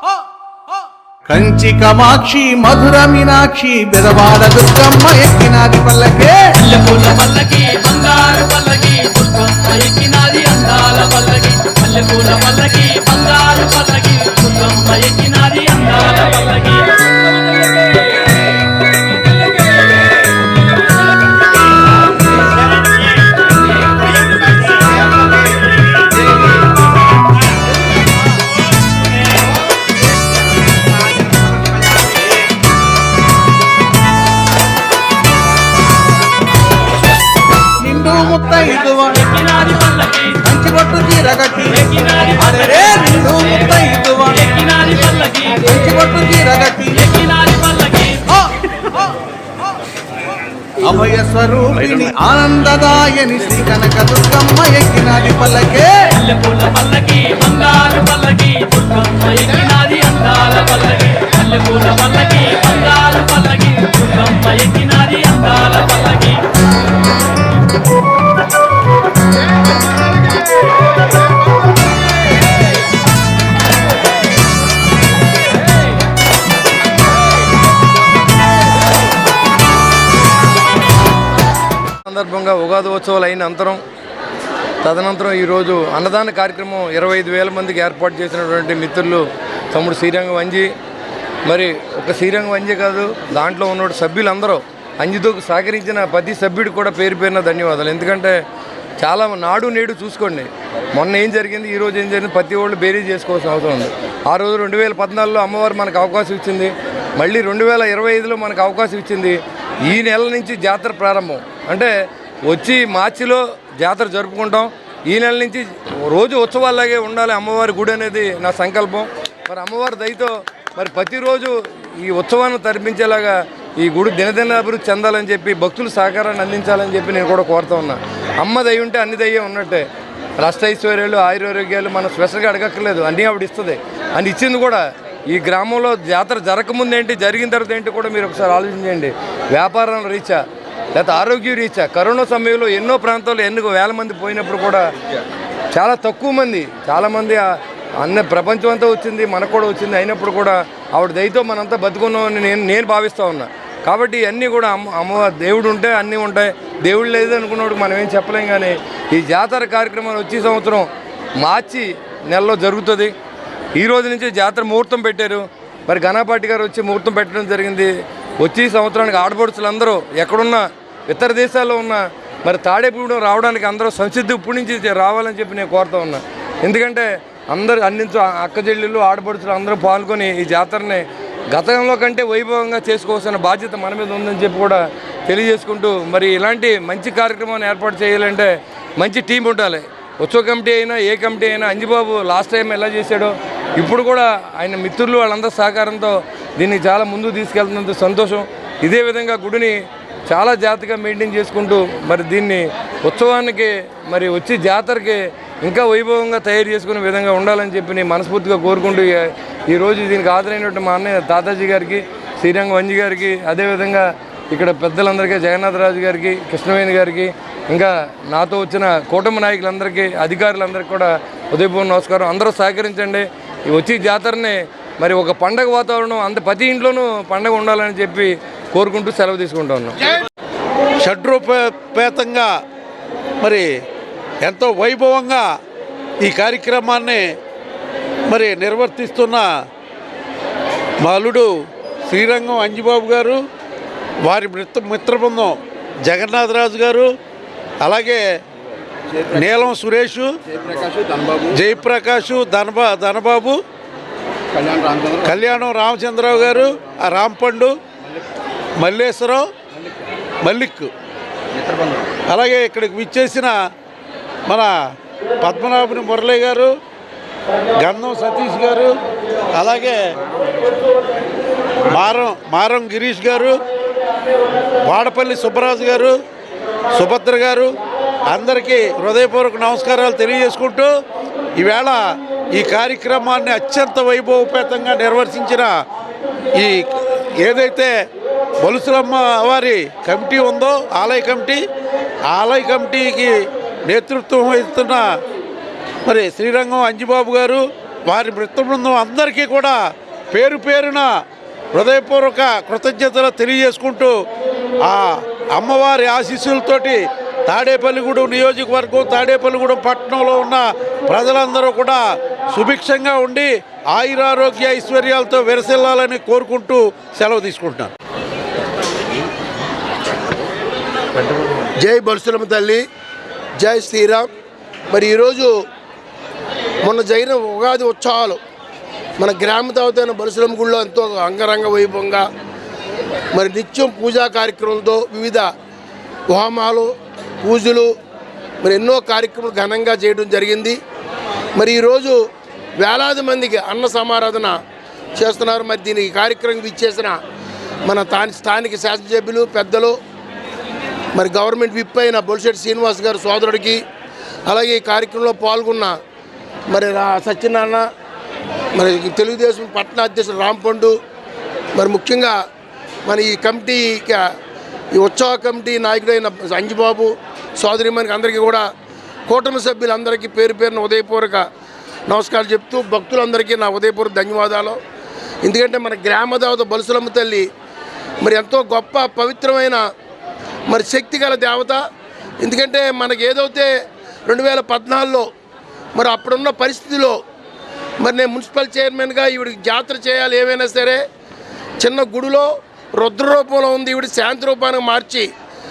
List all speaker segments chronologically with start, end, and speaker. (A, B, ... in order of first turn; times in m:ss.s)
0:01.3-0:06.4 A
0:06.6-0:16.9 B
0:37.9-0:39.2 A
0:38.7-0:40.4 B
0:40.4-0:41.9 A
0:41.7-0:43.6 B
0:42.4-0:44.4 A
0:44.3-0:45.7 B
0:45.6-0:46.9 A
0:46.9-0:48.2 B
0:50.8-0:55.9 A
0:56.2-1:06.4 B
1:22.1-1:23.8 C
1:24.8-1:30.7 C
1:31.5-1:38.4 C
1:39.0-1:51.9 C
1:52.5-2:09.9 C
2:10.4-2:20.4 C
2:21.0-2:24.9 C
2:25.7-2:27.5 C
2:28.0-2:43.1 C
2:43.8-3:50.0 C
3:51.0-3:52.5 D
3:53.4-3:53.7 D
3:54.4-3:55.5 D
3:56.2-3:57.3 D
3:58.3-3:59.5 D
4:01.0-4:01.5 D
4:02.1-4:03.4 D
4:04.3-4:07.1 D
4:07.8-4:08.2 D
4:09.3-4:10.4 D
4:11.5-4:13.6 D
4:15.2-4:17.8 D
4:18.8-4:19.5 D
4:20.4-4:20.9 D
4:22.3-4:23.6 D
4:25.4-4:26.8 D
4:27.8-4:29.0 D
4:29.5-4:30.0 D
4:31.9-4:33.6 D
4:34.9-4:36.2 D
4:36.9-4:37.7 D
4:38.3-4:40.9 D
4:41.6-4:45.7 D
4:46.6-4:48.0 D
4:48.6-4:51.6 D
4:52.3-4:53.3 D
4:53.9-4:55.1 D
4:56.1-4:59.8 D
5:00.3-5:01.1 D
5:01.7-5:04.2 D
5:04.8-5:17.9 D
5:21.8-5:22.8 E
5:23.6-5:24.3 E
5:24.9-5:25.5 E
5:26.8-5:28.4 E
5:29.2-5:32.3 E
5:33.4-5:35.5 E
5:36.3-5:36.9 E
5:37.4-5:37.9 E
5:38.6-5:40.8 E
5:41.6-5:42.2 E
5:42.8-5:44.6 E
5:45.2-5:47.2 E
5:47.9-5:50.0 E
5:51.2-5:53.8 E
5:54.5-5:56.0 E
5:56.7-5:57.8 E
5:58.8-6:01.0 E
6:01.8-6:02.4 E
6:03.1-6:04.2 E
6:05.0-6:08.7 E
6:09.3-6:11.5 E
6:12.1-6:14.8 E
6:15.4-6:17.5 E
6:18.2-6:19.8 E
6:20.7-6:21.8 E
6:22.4-6:23.7 E
6:24.3-6:25.3 E
6:26.0-6:27.2 E
6:28.0-6:31.0 E
6:31.8-6:35.3 E